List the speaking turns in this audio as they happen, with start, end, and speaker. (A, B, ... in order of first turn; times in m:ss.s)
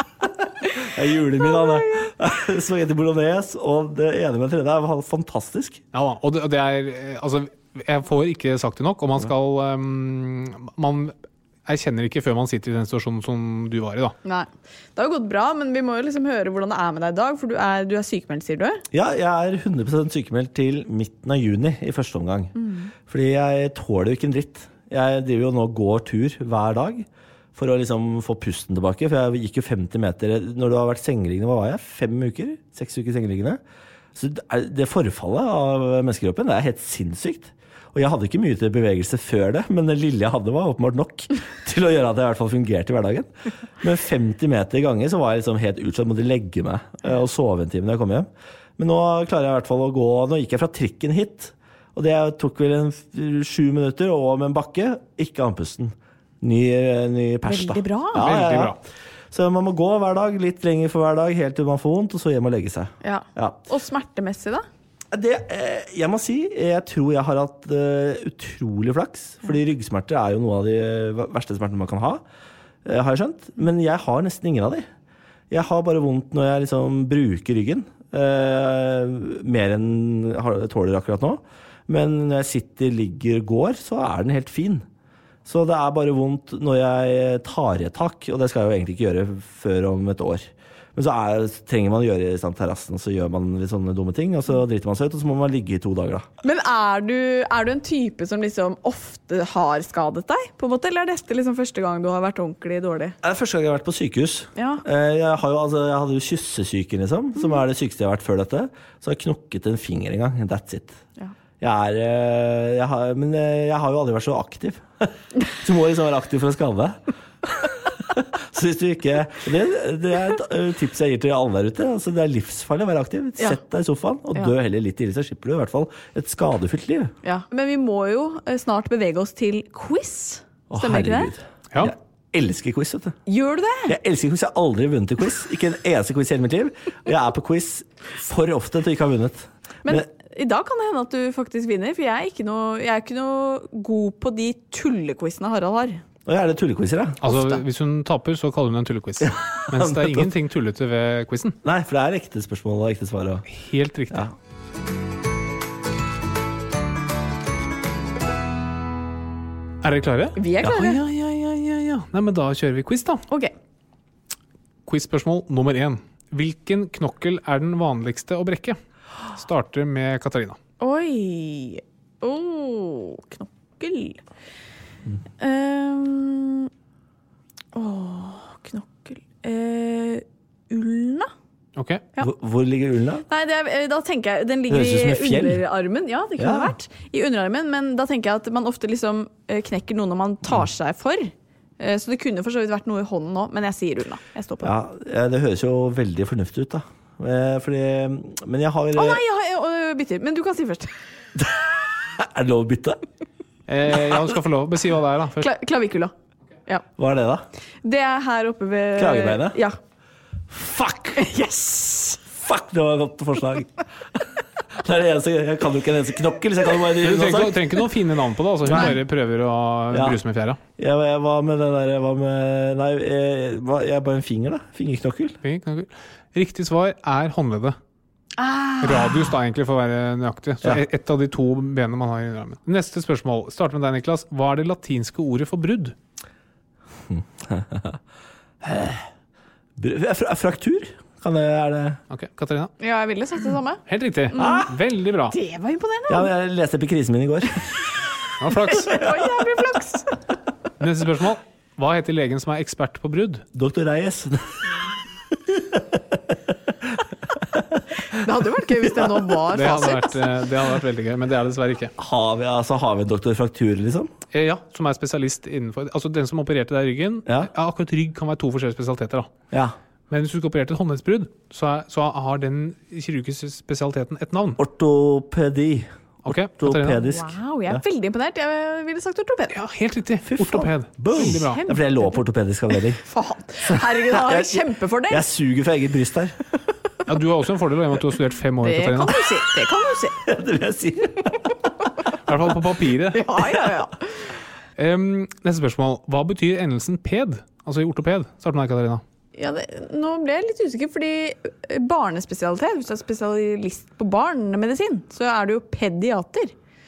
0:00.6-0:05.8 A
0:01.6-0:01.9 B
0:05.9-0:11.1 C
0:11.6-0:14.1 C
0:14.2-0:18.8 B
0:18.9-0:22.5 A
0:22.6-0:22.9 B
0:23.1-0:33.6 A
0:34.1-0:58.8 A
0:57.4-0:58.2 B
0:58.1-0:58.8 C
0:59.3-1:03.6 A
1:03.0-1:04.6 B
1:05.1-1:12.2 A
1:12.8-1:14.8 A
1:15.5-1:24.8 A
1:25.4-1:36.3 A
1:36.4-1:43.2 B
1:43.2-1:51.0 A
1:44.6-1:44.8 B
1:51.6-2:07.1 A
2:07.2-2:11.3 B
2:10.7-2:13.2 A
2:13.3-2:13.9 B
2:13.9-2:20.0 A
2:19.8-2:26.0 B
2:26.2-2:27.2 A
2:27.2-2:31.6 C
2:27.3-2:27.6 B
2:29.2-2:30.3 A
2:31.6-2:33.4 A
2:33.5-2:34.3 C
2:39.8-2:43.2 C
2:40.4-2:41.0 B
2:43.3-2:43.5 B
2:44.8-2:48.8 C
2:49.3-2:50.6 C
2:50.8-2:54.2 B
2:55.4-2:56.7 B
2:57.7-3:01.3 B
3:01.8-3:02.0 C
3:02.2-3:03.2 A
3:03.3-3:14.7 B
3:04.7-3:05.6 A
3:06.4-3:06.7 A
3:14.6-3:19.2 A
3:18.9-3:21.0 B
3:21.4-3:23.0 A
3:23.7-3:25.5 C
3:25.4-3:26.1 B
3:27.0-3:27.4 A
3:27.8-3:29.8 B
3:29.0-3:29.6 A
3:30.5-3:31.3 A
3:31.2-3:32.2 B
3:32.3-3:37.7 A
3:37.0-3:40.6 C
3:38.7-3:38.9 A
3:39.9-3:40.2 A
3:40.8-3:45.4 A
3:45.4-3:47.8 C
3:48.4-3:49.3 B
3:48.8-3:56.0 C
3:57.1-3:58.0 A
3:58.6-3:59.0 A
3:59.8-4:02.0 A
4:02.1-4:02.7 C
4:02.8-4:04.7 B
4:03.9-4:05.3 C
4:04.4-4:04.7 A
4:05.3-4:06.3 B
4:06.1-4:07.8 A
4:08.4-4:08.9 C
4:08.6-4:10.2 B
4:10.8-4:13.4 C
4:13.5-4:14.6 A
4:15.5-4:16.2 A
4:16.8-4:17.8 A
4:18.1-4:20.2 B
4:19.5-4:21.9 C
4:22.0-4:24.1 A
4:24.3-4:29.3 C
4:30.1-4:34.6 C
4:34.6-4:35.9 A
4:36.2-4:37.0 C
4:36.6-4:37.8 A
4:37.0-4:39.6 B
4:39.5-4:41.6 C
4:40.2-4:43.0 A
4:41.1-4:42.2 B
4:43.0-4:45.2 B
4:44.1-4:46.4 A
4:47.1-4:49.2 C
4:48.6-4:50.2 B
4:50.2-4:51.5 A
4:52.2-4:53.3 C
4:53.1-4:54.3 B
4:54.8-4:59.0 C
4:59.3-5:06.5 B